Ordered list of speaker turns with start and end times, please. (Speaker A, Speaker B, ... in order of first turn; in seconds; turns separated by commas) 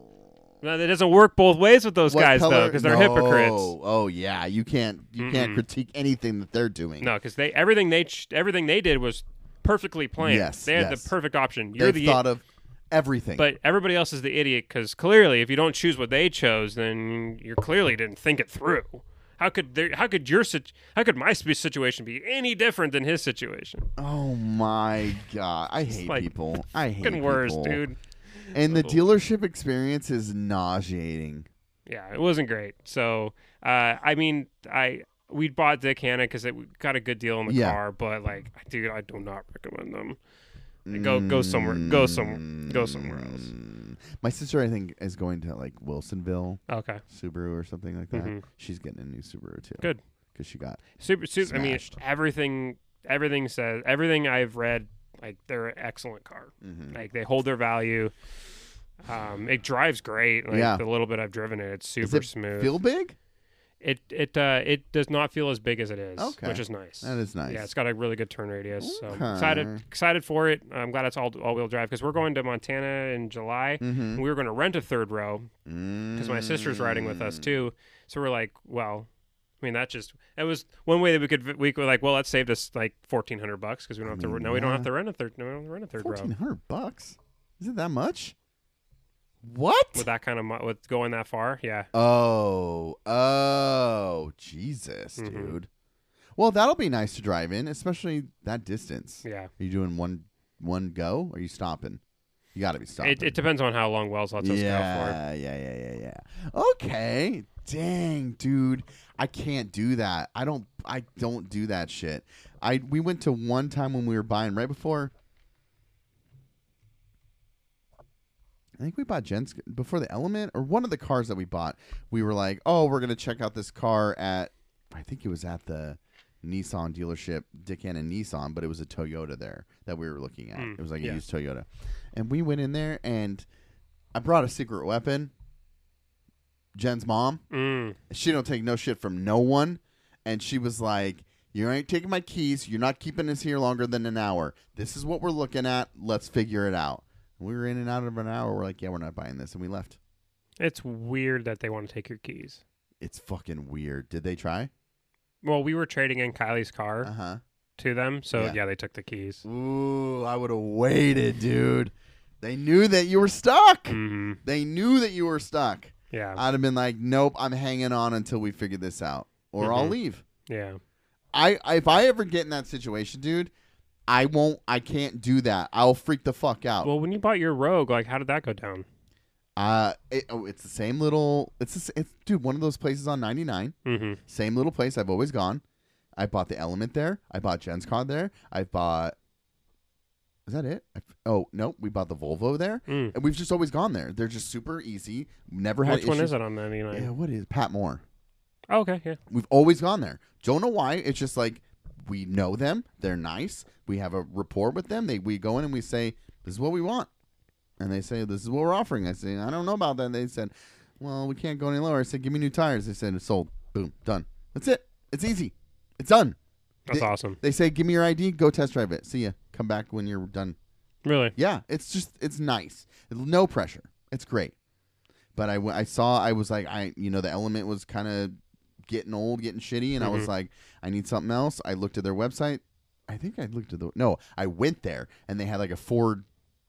Speaker A: 0.6-3.7, Speaker B: 2.1-7.1, Speaker A: 5.2-5.6, Speaker A: 7.0-12.2, Speaker B: 10.2-11.1, Speaker B: 11.8-13.5, Speaker A: 13.4-23.9, Speaker B: 24.0-27.8, Speaker A: 25.9-26.3, Speaker A: 27.0-29.0, Speaker B: 28.5-31.5, Speaker A: 31.9-40.2, Speaker B: 37.5-37.8, Speaker B: 40.9-52.0, Speaker A: 40.9-43.5, Speaker A: 46.7-47.0, Speaker A: 48.1-48.4, Speaker A: 51.0-58.1, Speaker B: 56.6-57.0, Speaker A: 59.0-62.7, Speaker B: 60.5-60.8, Speaker B: 62.0-63.2, Speaker A: 63.8-75.5, Speaker B: 66.2-67.7, Speaker B: 68.8-69.8, Speaker B: 73.8-74.2, Speaker B: 75.7-77.5, Speaker A: 76.2-79.1, Speaker A: 79.6-86.3, Speaker B: 84.0-84.9, Speaker B: 86.0-88.3, Speaker B: 89.4-90.1, Speaker A: 89.9-91.9, Speaker B: 91.9-95.7, Speaker A: 95.2-95.5, Speaker B: 96.4-102.0, Speaker A: 99.2-99.5, Speaker B: 102.5-103.4, Speaker A: 103.0-105.2, Speaker B: 104.4-115.1, Speaker B: 118.8-133.4, Speaker A: 130.6-131.2, Speaker B: 134.1-135.3, Speaker B: 136.7-137.4, Speaker A: 137.5-138.0, Speaker B: 138.1-150.0, Speaker A: 150.6-152.6, Speaker B: 153.0-154.7, Speaker A: 155.4-157.1, Speaker B: 157.0-157.4, Speaker A: 157.8-159.4, Speaker B: 159.4-170.2, Speaker A: 163.9-164.4, Speaker A: 166.1-166.4, Speaker A: 169.6-169.9, Speaker A: 170.5-170.8, Speaker B: 171.3-173.5, Speaker B: 174.1-176.9, Speaker A: 176.8-178.9, Speaker B: 179.6-183.7, Speaker A: 183.9-184.2, Speaker B: 184.3-185.6, Speaker B: 186.2-189.1, Speaker B: 190.4-196.3, Speaker A: 192.9-193.1, Speaker A: 195.8-197.1, Speaker B: 196.9-198.0, Speaker A: 198.7-199.2, Speaker B: 199.3-207.1, Speaker B: 207.8-216.4, Speaker A: 216.9-217.4, Speaker B: 216.9-220.6, Speaker A: 221.1-221.3, Speaker B: 221.4-224.5, Speaker B: 225.3-236.3, Speaker A: 230.0-230.3